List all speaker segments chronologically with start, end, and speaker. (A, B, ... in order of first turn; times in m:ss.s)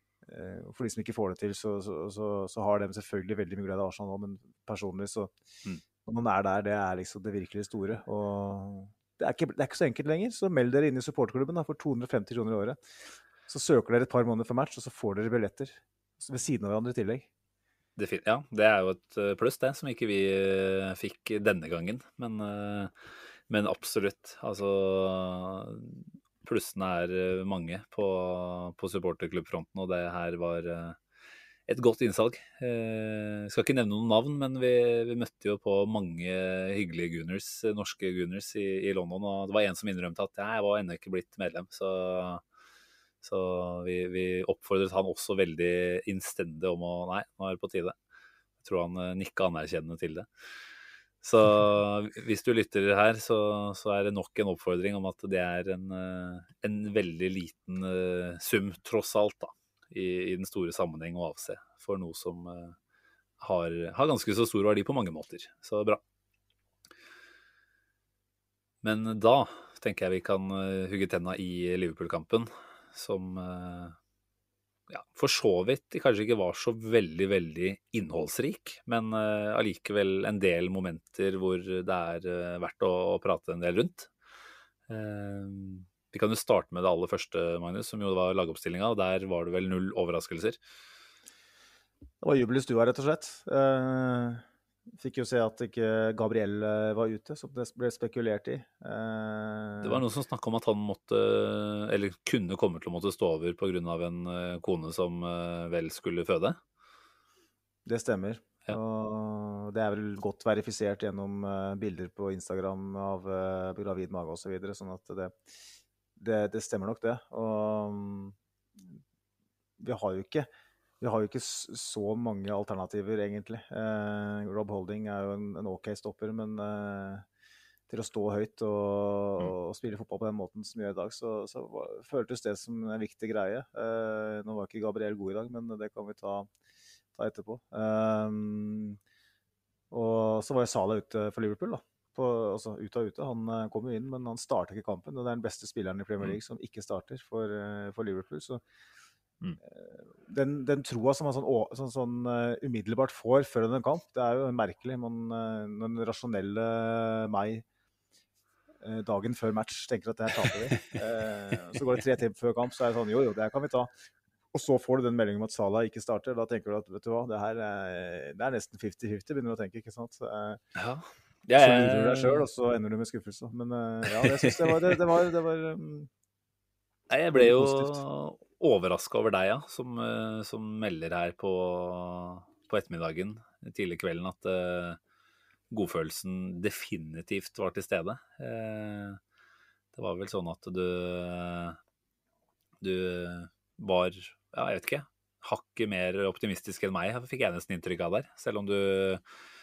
0:00.2-0:05.3 A
0:06.0-0:12.8 A
0:13.5-0:17.3 A
0:18.0-0:22.9 B
0:23.5-0:31.0 B
0:31.7-0:42.4 B
0:43.2-0:47.9 B
0:48.6-0:50.3 B
0:51.2-1:02.8 B
1:03.4-1:06.0 B
1:08.8-1:14.0 B
1:14.9-1:24.1 B
1:24.9-1:30.6 B
1:32.2-1:40.0 A
1:39.8-1:46.6 B
1:47.8-1:55.3 A
1:56.2-1:58.3 A
1:59.8-2:00.5 A
2:01.0-2:07.2 A
2:07.9-2:16.5 A
2:17.1-2:19.0 A
2:19.9-2:28.6 A
2:29.6-2:37.6 A
2:38.8-2:43.9 A
2:44.5-2:50.6 A
2:50.8-2:52.5 B
2:51.6-2:56.1 A
2:54.1-2:55.0 B
2:57.1-3:05.0 B
2:57.3-2:58.0 A
3:05.7-3:09.2 B
3:09.9-3:11.8 B
3:12.8-3:19.2 B